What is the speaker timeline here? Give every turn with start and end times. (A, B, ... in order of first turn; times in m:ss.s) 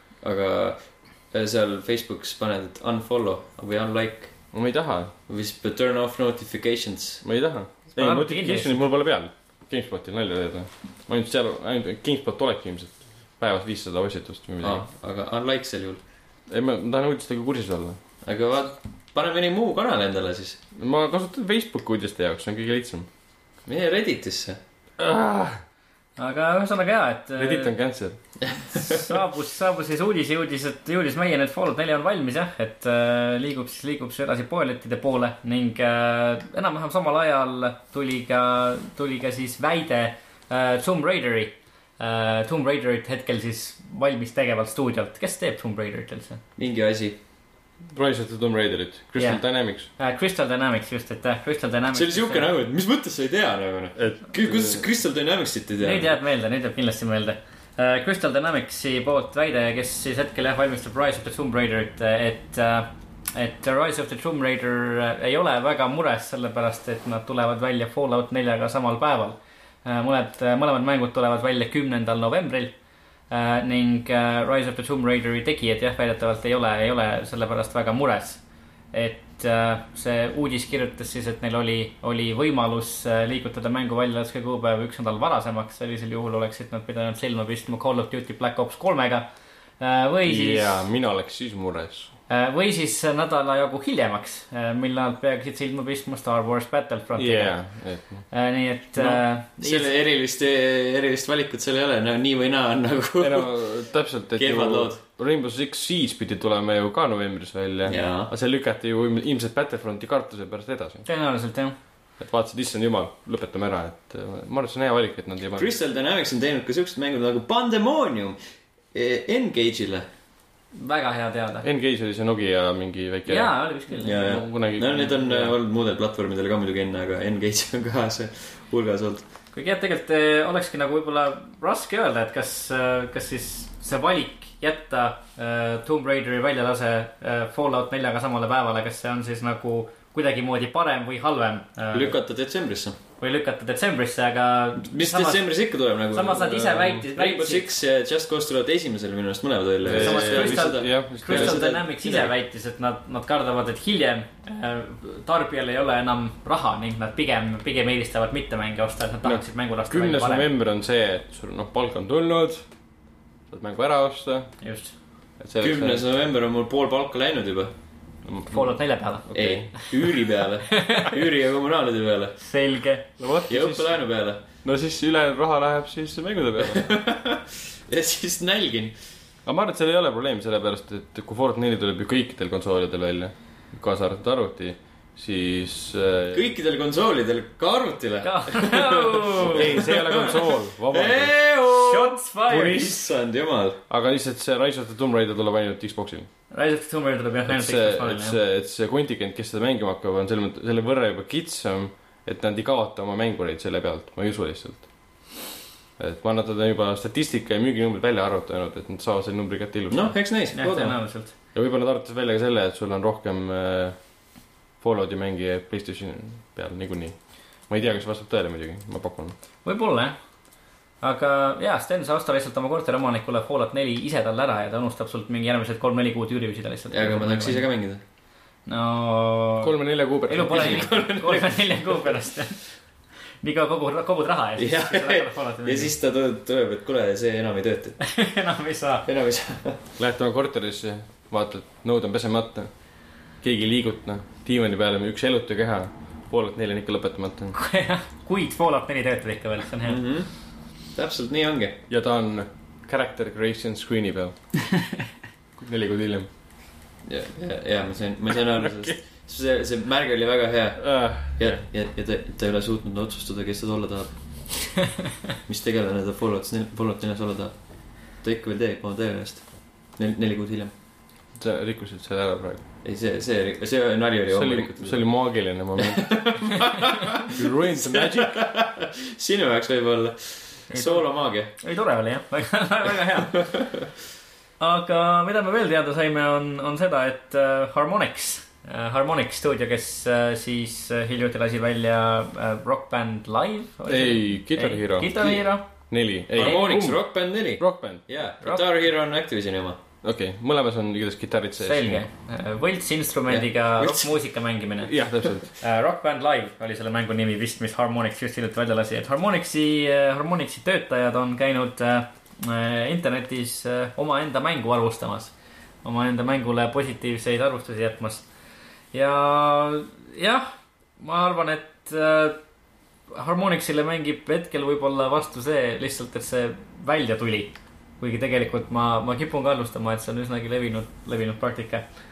0:00.2-0:04.5 A
0:04.5-0:05.1 B
0:05.3-0:07.2 A
0:07.2-0:14.8 B
0:07.9-0:08.8 C
0:14.6-0:16.0 A
0:16.5-0:18.0 B
0:18.2-0:20.6 A
0:20.7-0:23.1 B
0:23.6-0:24.6 A
0:25.0-0:25.6 B
0:26.2-0:27.7 C
0:27.4-0:28.2 B
0:28.5-0:28.8 A
0:28.7-0:46.4 C
0:46.6-0:47.2 A
0:47.9-0:49.9 B
0:49.2-0:52.5 C
0:51.9-0:56.1 A
0:54.0-0:54.8 B
0:55.8-1:12.7 C
1:13.3-1:18.4 C
1:18.9-1:29.2 C
1:29.8-1:30.8 C
1:30.2-1:32.1 B
1:32.3-1:37.6 C
1:37.1-1:38.2 B
1:38.3-1:39.9 C
1:39.1-1:43.7 A
1:43.2-1:51.0 B
1:44.4-1:45.0 A
1:47.8-1:48.3 A
1:51.0-1:51.8 C
1:52.2-1:55.7 B
1:55.6-1:58.4 A
1:58.9-2:00.0 A
2:00.7-2:01.6 C
2:01.6-2:03.6 B
2:03.3-2:04.3 C
2:03.9-2:09.2 A
2:04.1-2:05.2 B
2:05.0-2:05.5 C
2:09.5-2:22.1 C
2:21.9-2:23.0 A
2:23.2-2:25.4 C
2:24.8-2:32.3 A
2:26.1-2:27.7 C
2:29.8-2:31.6 B
2:29.9-2:40.5 C
2:39.2-2:42.6 B
2:43.5-2:44.5 B
2:44.6-2:44.9 C
2:45.4-2:46.0 B
2:45.6-2:47.7 A
2:48.2-2:49.7 B
2:48.5-2:49.9 C
2:49.3-2:52.4 A
2:50.7-2:51.1 C
2:52.4-2:53.0 C
2:53.2-2:53.9 B
2:53.5-2:54.4 A
2:54.6-2:57.0 B
2:56.6-2:58.9 A
2:59.4-3:06.5 B
3:06.3-3:13.8 A
3:08.2-3:09.7 C
3:09.5-3:11.4 B
3:11.7-3:13.0 C
3:13.9-3:16.3 B
3:16.5-3:18.4 C
3:17.5-3:24.9 B
3:26.0-3:30.1 B
3:29.9-3:31.0 A
3:30.5-3:31.3 C
3:31.5-3:34.0 B
3:34.8-3:37.2 B
3:37.7-3:39.3 B
3:39.6-3:40.1 C
3:41.0-3:47.6 C
3:46.9-3:48.0 A
3:48.6-3:49.7 C
3:49.6-3:50.9 B
3:50.2-3:52.6 C
3:50.5-3:51.9 A
3:53.4-3:55.9 C
3:54.6-3:58.0 A
3:58.0-3:59.0 C
3:59.0-3:59.9 A
4:00.0-4:02.7 B
4:03.4-4:07.5 B
4:07.5-4:10.0 C
4:09.8-4:10.3 A
4:10.9-4:11.8 A
4:11.9-4:14.4 B
4:15.6-4:16.3 B
4:17.0-4:30.7 A
4:18.6-4:18.9 B
4:20.8-4:21.6 B
4:31.4-4:32.6 B
4:32.8-4:35.1 A
4:34.3-4:36.4 B
4:35.8-4:41.5 A
4:37.3-4:38.4 B
4:40.7-4:43.5 C
4:43.4-4:43.7 A
4:44.6-4:55.6 C
4:53.9-4:57.0 B
4:56.3-4:59.8 A
4:57.6-4:58.0 B
5:00.0-5:02.0 B
5:01.6-5:04.9 C
5:03.3-5:04.1 A
5:04.8-5:05.5 B
5:05.6-5:15.3 C
5:15.8-5:18.2 C
5:18.9-5:22.4 C
5:23.1-5:31.8 C